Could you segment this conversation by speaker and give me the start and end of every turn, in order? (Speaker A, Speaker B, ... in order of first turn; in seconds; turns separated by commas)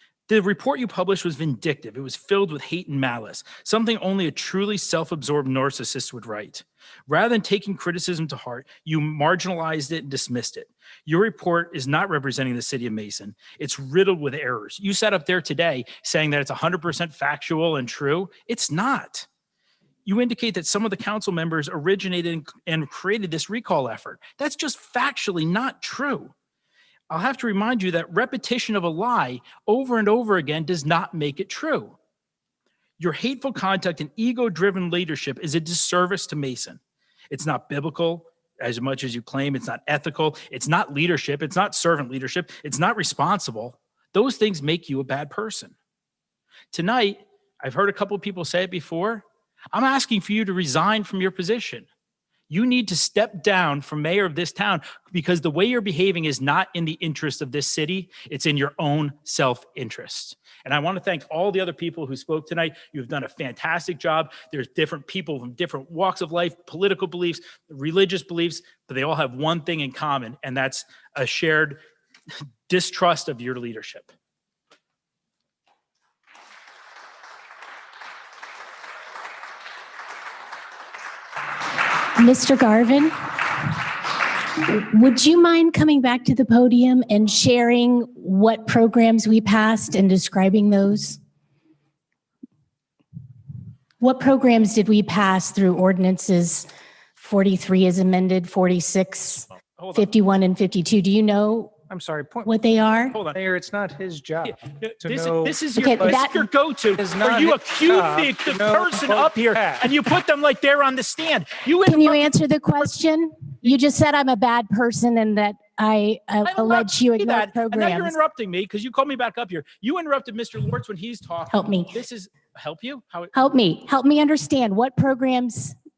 Speaker A: 0.3-19.3, Speaker A: 20.0-26.3, Speaker A: 27.1-32.0, Speaker A: 33.0-36.8, Speaker A: 37.3-45.7, Speaker A: 46.7-51.9, Speaker A: 52.5-71.8, Speaker A: 72.7-74.1, Speaker B: 82.2-83.7, Speaker B: 84.5-91.2, Speaker B: 94.0-101.8, Speaker A: 99.8-100.0, Speaker C: 101.9-102.5, Speaker B: 102.4-103.2, Speaker A: 103.1-103.4, Speaker C: 103.3-106.2, Speaker A: 104.4-112.3, Speaker B: 105.7-106.5, Speaker C: 107.0-109.9, Speaker B: 111.8-118.2, Speaker A: 116.4-123.3, Speaker B: 121.5-121.9, Speaker B: 123.3-125.7